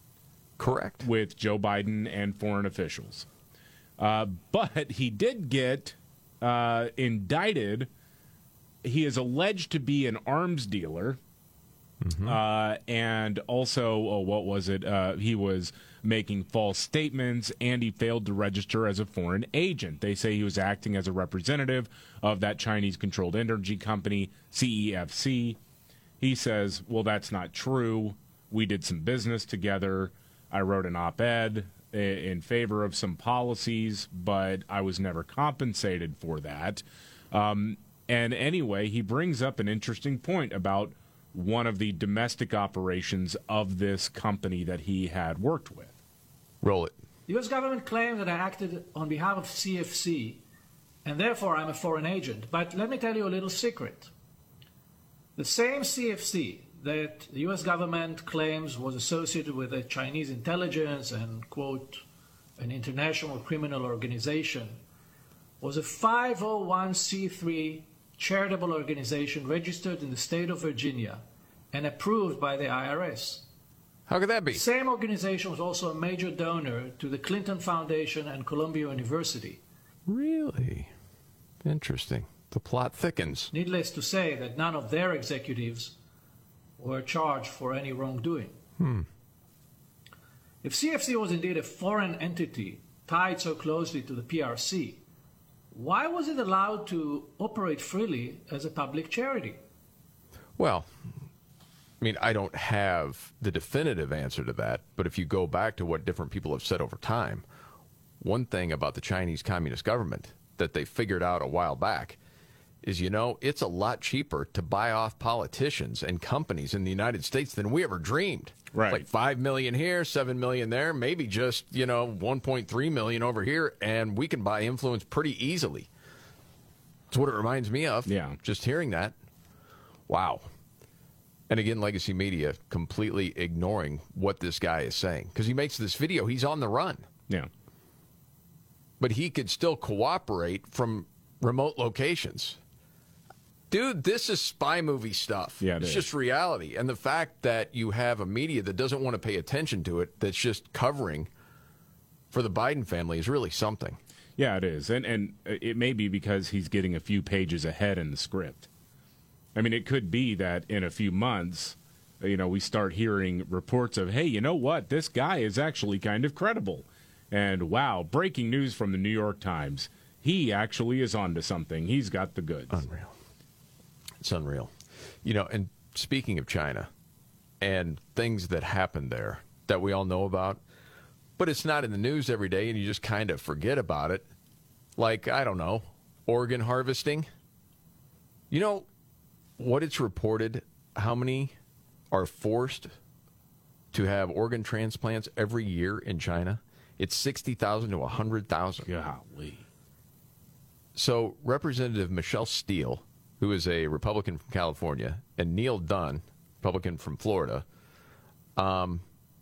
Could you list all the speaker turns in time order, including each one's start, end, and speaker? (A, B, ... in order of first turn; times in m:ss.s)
0:00.6-0:01.0 A
0:01.0-0:03.2 B
0:04.0-0:07.9 B
0:08.8-0:11.2 B
0:12.0-0:12.4 A
0:12.2-0:25.6 B
0:26.2-0:45.9 B
0:46.6-0:46.9 A
0:47.3-0:50.4 C
0:51.0-0:54.1 C
0:55.4-1:02.0 C
1:02.6-1:04.8 C
1:05.6-1:13.4 C
1:14.1-1:14.6 A
1:14.5-1:19.6 C
1:20.1-1:20.9 A
1:21.6-1:23.5 A
1:23.5-1:26.0 C
1:26.8-1:28.6 C
1:28.8-1:29.1 A
1:30.6-1:35.0 C
1:35.7-1:39.6 C
1:40.6-1:41.0 A
1:42.0-1:47.4 A
1:48.2-1:52.2 A
1:52.8-2:05.9 A
1:58.7-1:59.0 B
2:07.1-2:09.2 A
2:08.0-2:08.4 B
2:10.1-2:10.5 A
2:11.5-2:17.1 A
2:19.0-2:22.6 A
2:23.7-2:31.3 A
2:25.6-2:26.1 B
2:32.3-2:34.0 A
2:34.4-2:38.7 B
2:39.5-2:52.8 B
2:52.7-2:53.1 A
2:54.2-2:56.9 A
2:57.6-3:00.6 A
3:01.4-3:04.3 A
3:05.0-3:07.3 A
3:08.5-3:08.9 A
3:09.6-3:11.5 A
3:12.1-3:12.9 A
3:13.9-3:18.9 A
3:18.8-3:19.6 B
3:20.9-3:27.6 A
3:28.6-3:29.0 A